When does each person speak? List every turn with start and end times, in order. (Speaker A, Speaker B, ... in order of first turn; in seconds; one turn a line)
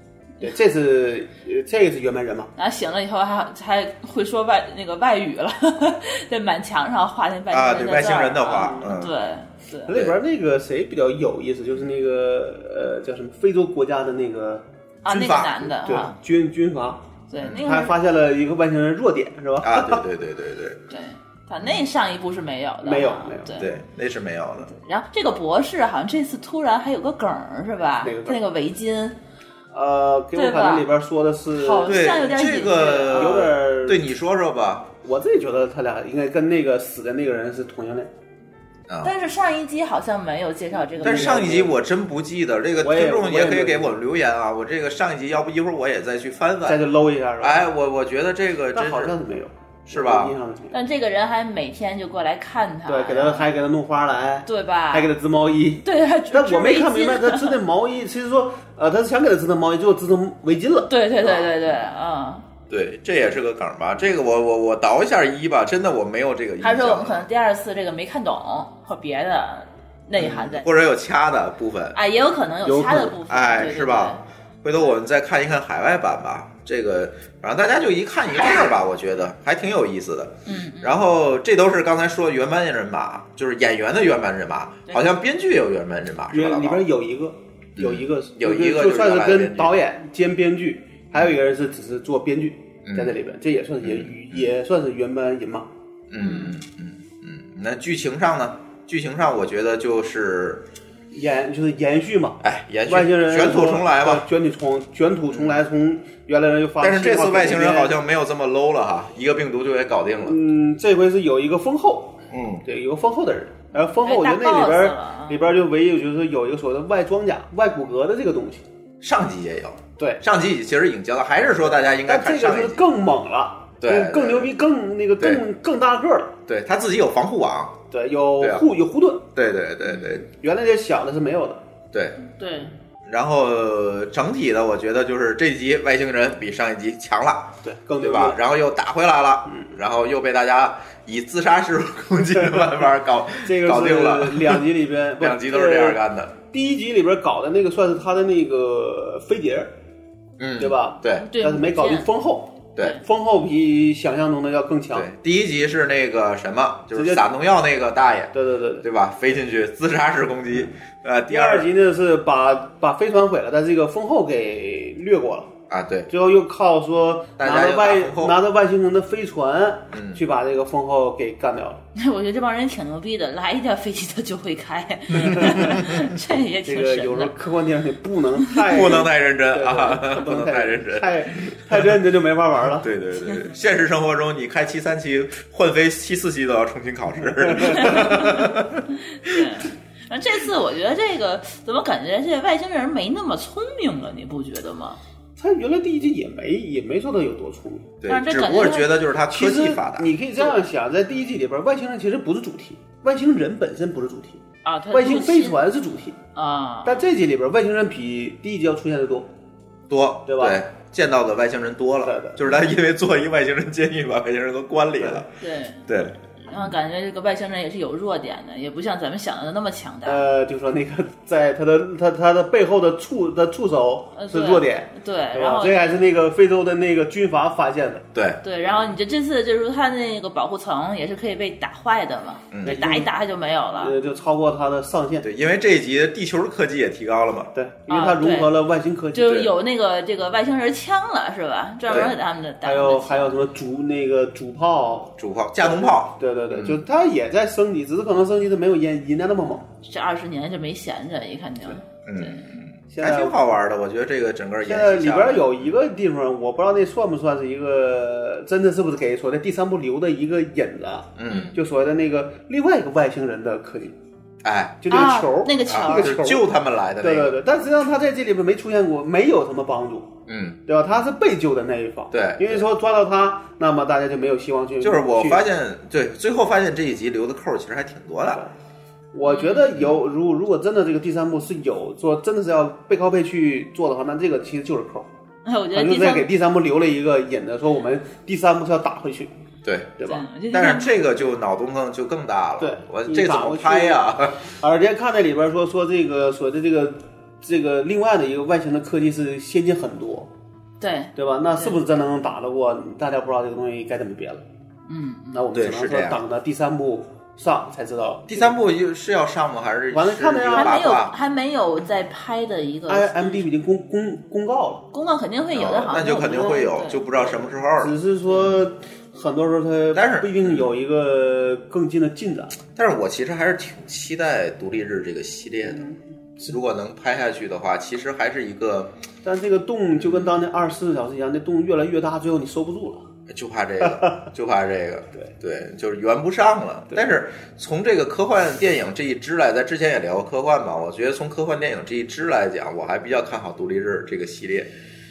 Speaker A: 0.4-2.5
Speaker B: 2.6-9.9
Speaker C: 7.5-9.1
Speaker A: 8.6-8.9
Speaker A: 9.9-14.7
Speaker C: 9.9-10.2
Speaker B: 15.0-16.1
Speaker C: 15.1-15.7
Speaker A: 15.7-20.0
Speaker B: 17.3-17.9
Speaker C: 17.4-17.8
Speaker C: 19.6-20.8
Speaker B: 20.9-23.7
Speaker A: 22.8-23.6
Speaker C: 23.6-24.7
Speaker B: 24.7-29.2
Speaker A: 28.0-28.4
Speaker A: 29.7-32.2
Speaker B: 30.4-30.9
Speaker B: 31.6-33.5
Speaker C: 31.8-34.9
Speaker A: 33.1-34.0
Speaker A: 35.0-38.1
Speaker C: 38.9-39.1
Speaker B: 39.0-41.5
Speaker A: 40.9-41.8
Speaker C: 41.0-46.8
Speaker A: 42.8-44.0
Speaker A: 46.6-47.7
Speaker C: 47.4-49.1
Speaker A: 48.7-50.8
Speaker C: 49.9-50.4
Speaker B: 50.7-53.5
Speaker A: 52.9-61.4
Speaker B: 54.5-55.1
Speaker B: 55.8-57.6
Speaker B: 60.9-62.5
Speaker C: 62.7-67.3
Speaker B: 66.6-70.7
Speaker C: 70.2-72.0
Speaker B: 71.9-74.2
Speaker A: 72.6-73.2
Speaker C: 73.3-86.9
Speaker B: 80.5-81.0
Speaker A: 86.3-95.7
Speaker C: 87.8-89.8
Speaker C: 92.9-93.2
Speaker C: 93.8-94.5
Speaker C: 96.1-100.7
Speaker B: 96.2-96.6
Speaker A: 101.1-107.9
Speaker C: 102.4-104.3
Speaker C: 105.3-105.6
Speaker C: 106.8-110.4
Speaker A: 110.2-118.6
Speaker C: 112.3-112.6
Speaker B: 114.0-115.5
Speaker C: 119.0-122.8
Speaker A: 122.1-126.4
Speaker C: 123.8-124.5
Speaker C: 126.5-127.8
Speaker A: 127.9-129.3
Speaker C: 128.4-128.7
Speaker C: 129.3-130.3
Speaker A: 130.2-131.6
Speaker C: 131.9-132.2
Speaker B: 132.2-132.7
Speaker C: 133.1-144.7
Speaker A: 137.6-138.4
Speaker A: 143.4-146.0
Speaker C: 145.2-146.4
Speaker A: 146.5-149.7
Speaker C: 150.4-151.3
Speaker A: 150.6-155.1
Speaker B: 151.2-152.1
Speaker C: 154.9-161.7
Speaker A: 156.9-157.2
Speaker A: 158.3-158.8
Speaker A: 161.3-165.5
Speaker C: 165.7-166.1
Speaker A: 166.1-171.8
Speaker C: 167.4-168.4
Speaker C: 169.9-170.2
Speaker B: 171.9-177.3
Speaker C: 175.2-176.0
Speaker A: 175.2-175.8
Speaker A: 176.7-182.9
Speaker C: 178.7-181.9
Speaker C: 182.8-189.4
Speaker B: 187.8-188.5
Speaker B: 189.2-195.0
Speaker A: 195.4-197.9
Speaker C: 198.0-200.4
Speaker B: 198.1-199.0
Speaker A: 199.3-206.2
Speaker B: 204.7-205.6
Speaker B: 206.3-207.0
Speaker A: 206.8-209.3
Speaker C: 209.9-215.3
Speaker A: 210.3-210.6
Speaker A: 212.0-212.4
Speaker B: 215.4-215.9
Speaker C: 215.9-216.7
Speaker B: 216.4-220.3
Speaker A: 220.1-228.1
Speaker B: 224.2-226.0
Speaker C: 228.1-228.4
Speaker B: 228.4-233.9
Speaker C: 232.5-232.8
Speaker A: 232.6-233.1
Speaker A: 233.8-235.3
Speaker C: 235.2-237.5
Speaker A: 237.6-239.5
Speaker B: 237.9-238.5
Speaker B: 239.1-243.4
Speaker C: 239.2-239.5
Speaker C: 241.9-242.2
Speaker A: 241.9-249.7
Speaker C: 245.2-246.8
Speaker B: 249.8-252.4
Speaker C: 252.1-255.8
Speaker A: 252.9-253.4
Speaker A: 254.6-264.0
Speaker C: 261.2-261.6
Speaker B: 261.3-261.6
Speaker C: 264.4-265.1
Speaker A: 264.8-270.1
Speaker B: 264.9-266.2
Speaker C: 265.7-267.4
Speaker C: 270.3-270.6
Speaker A: 270.7-275.4
Speaker C: 272.1-272.7
Speaker C: 274.8-278.4
Speaker A: 279.1-285.1
Speaker B: 279.2-279.7
Speaker C: 279.8-280.0
Speaker B: 285.4-286.3
Speaker A: 285.7-289.4
Speaker C: 289.6-290.0
Speaker A: 290.0-290.2
Speaker B: 290.0-290.9
Speaker C: 290.5-294.5
Speaker A: 292.6-300.3
Speaker B: 300.8-301.8
Speaker A: 301.2-304.4
Speaker B: 304.9-305.4
Speaker A: 305.3-308.6
Speaker C: 305.5-306.2
Speaker C: 308.3-311.1
Speaker A: 309.9-310.9
Speaker B: 310.5-313.5
Speaker A: 312.9-314.9
Speaker B: 314.9-317.4
Speaker C: 315.5-318.7
Speaker A: 316.1-316.5
Speaker A: 317.8-322.6
Speaker C: 319.9-320.7
Speaker C: 322.8-325.8
Speaker A: 325.7-326.6
Speaker C: 326.5-328.9
Speaker A: 329.2-333.1
Speaker C: 330.0-330.4
Speaker C: 333.3-344.7
Speaker A: 333.9-334.1